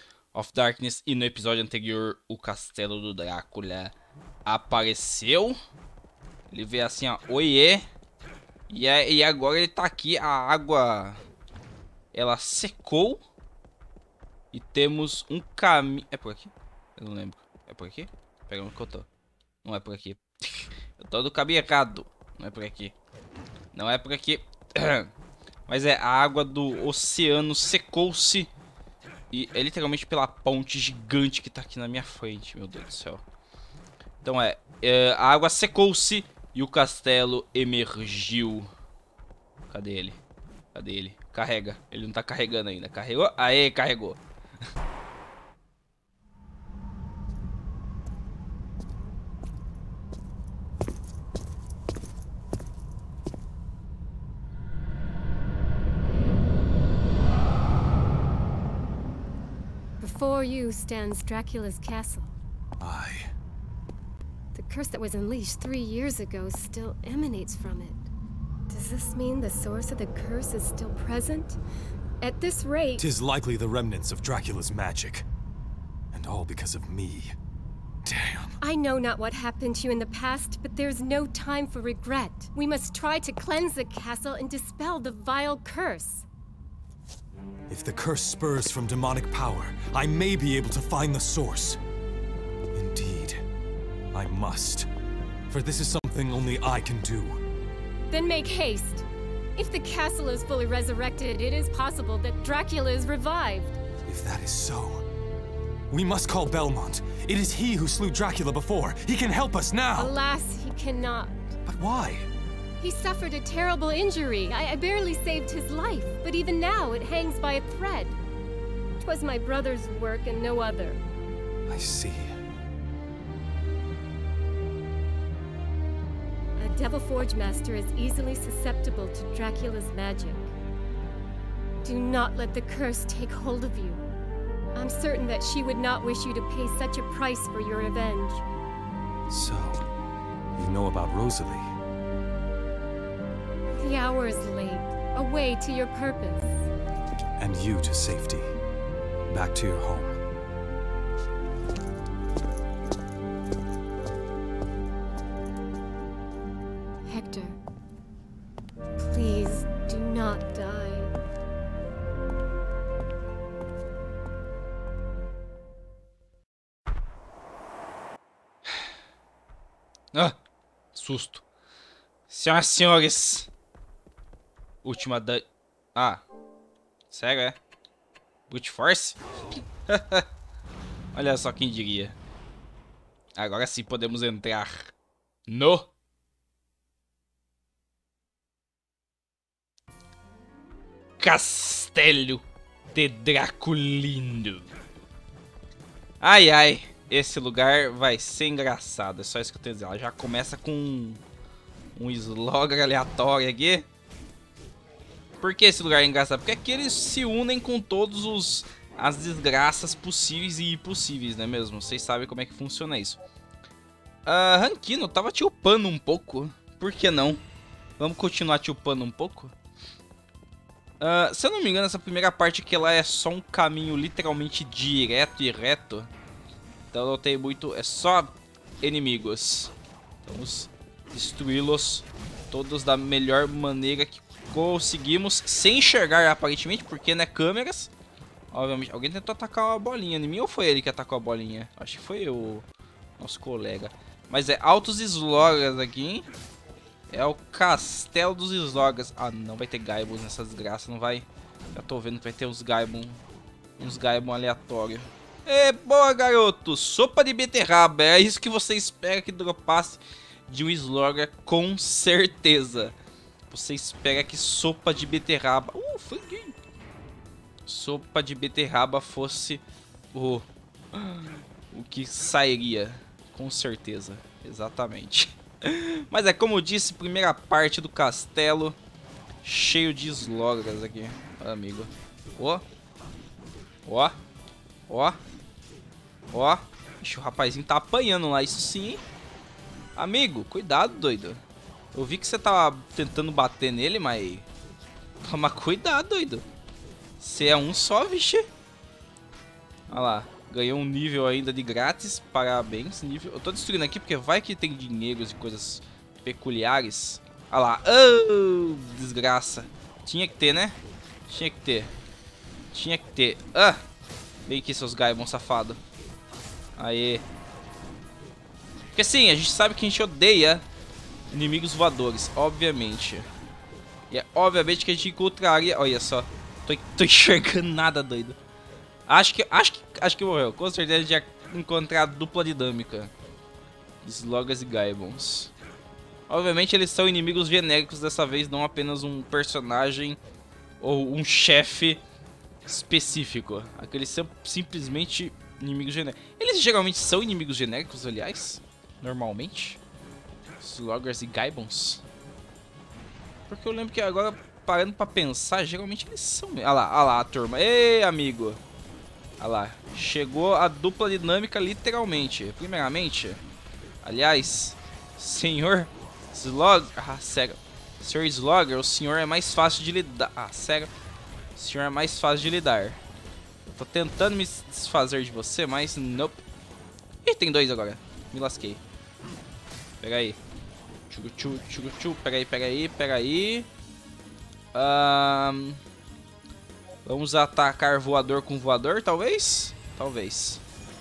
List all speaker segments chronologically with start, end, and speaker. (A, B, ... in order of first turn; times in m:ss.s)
0:00.3-0:03.9 A
0:04.4-0:05.6 A
0:06.5-0:07.8 A
0:08.7-0:11.2 A
0:12.1-0:13.2 A
0:14.5-0:19.1 A
0:19.6-0:22.9 A
0:23.7-0:25.1 A
0:25.7-0:28.5 A
0:29.3-0:33.2 A
0:34.2-0:38.7 A
0:39.7-0:40.2 A
0:40.7-0:44.2 A
1:00.0-1:02.3 B
1:02.8-1:03.2 C
1:04.5-1:08.0 B
1:08.7-1:11.6 B
1:12.2-1:13.0 B
1:13.0-1:15.2 C
1:16.1-1:17.3 C
1:18.0-1:18.6 C
1:18.6-1:26.2 B
1:27.7-1:31.8 C
1:32.7-1:33.4 C
1:34.1-1:34.9 C
1:35.5-1:37.4 C
1:38.1-1:39.0 B
1:39.6-1:43.8 B
1:44.0-1:45.0 C
1:45.9-1:50.1 C
1:50.0-1:51.4 B
1:51.6-1:52.3 C
1:52.8-1:58.2 B
1:59.0-2:01.0 B
2:01.7-2:02.3 C
2:06.6-2:10.5 B
2:11.8-2:14.0 B
2:14.7-2:18.4 B
2:19.3-2:19.9 C
2:20.5-2:21.7 C
2:23.8-2:26.7 B
2:27.4-2:28.5 C
2:29.3-2:30.2 C
2:37.0-2:37.6 B
2:39.0-2:41.1 B
2:50.9-2:51.4 A
2:52.3-2:53.5 A
2:54.8-2:56.2 A
2:57.1-2:57.6 A
2:58.5-2:59.2 A
2:59.9-3:00.2 A
3:01.1-3:02.2 A
3:03.4-3:04.9 A
3:05.5-3:05.9 A
3:11.2-3:12.4 A
3:12.9-3:14.7 A
3:16.2-3:21.2 A
3:22.0-3:23.8 A
3:25.4-3:33.2 A
3:34.2-3:37.4 A
3:38.0-3:39.5 A
3:41.0-3:46.1 A
3:46.9-3:49.7 A
3:50.2-3:57.9 A
3:58.5-4:02.6 A
4:03.2-4:06.3 A
4:07.1-4:13.2 A
4:13.8-4:23.0 A
4:23.5-4:26.6 A
4:27.6-4:38.8 A
4:39.4-4:42.6 A
4:43.8-4:44.2 A
4:44.9-4:45.2 A
4:46.3-4:49.0 A
4:50.0-4:51.4 A
4:51.9-4:54.5 A
4:55.2-4:56.4 A
4:57.2-4:58.4 A
4:59.9-5:11.9 A
5:12.7-5:13.8 A
5:14.4-5:15.8 A
5:16.8-5:17.2 A
5:18.9-5:20.6 A
5:21.3-5:23.3 A
5:24.1-5:28.4 A
5:29.0-5:33.1 A
5:34.0-5:35.5 A
5:36.3-5:40.2 A
5:40.8-5:42.0 A
5:42.6-5:49.8 A
5:50.6-5:52.0 A
5:53.5-5:58.6 A
5:59.4-6:03.4 A
6:04.0-6:10.9 A
6:11.5-6:13.0 A
6:13.6-6:16.4 A
6:17.2-6:18.8 A
6:20.0-6:20.4 A
6:21.1-6:23.7 A
6:24.7-6:25.8 A
6:27.0-6:30.6 A